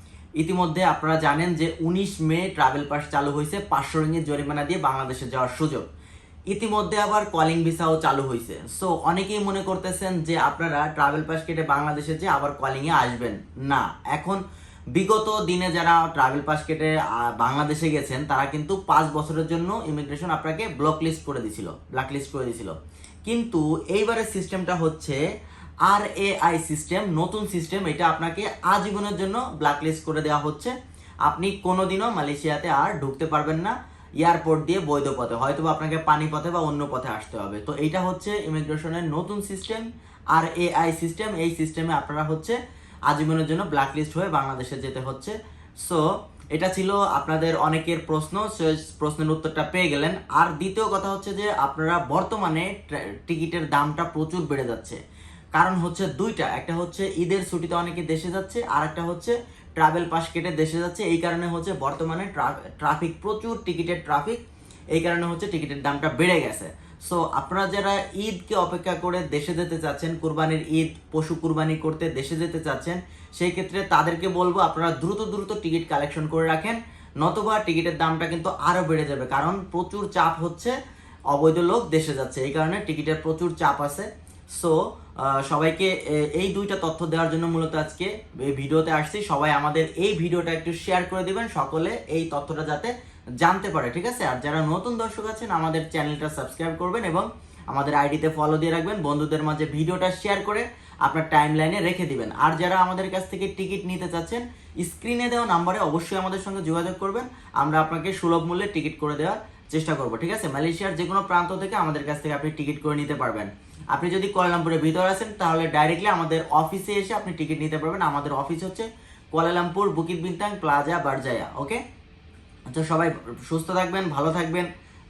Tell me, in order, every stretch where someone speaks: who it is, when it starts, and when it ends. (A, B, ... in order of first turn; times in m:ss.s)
0:00.4-0:05.8 A
0:06.5-0:14.4 A
0:14.9-0:25.2 A
0:25.8-0:30.7 A
0:31.2-0:42.6 A
0:43.1-0:55.0 A
0:55.6-1:04.4 A
1:04.9-1:20.7 A
1:21.3-2:01.8 A
2:02.7-2:04.7 A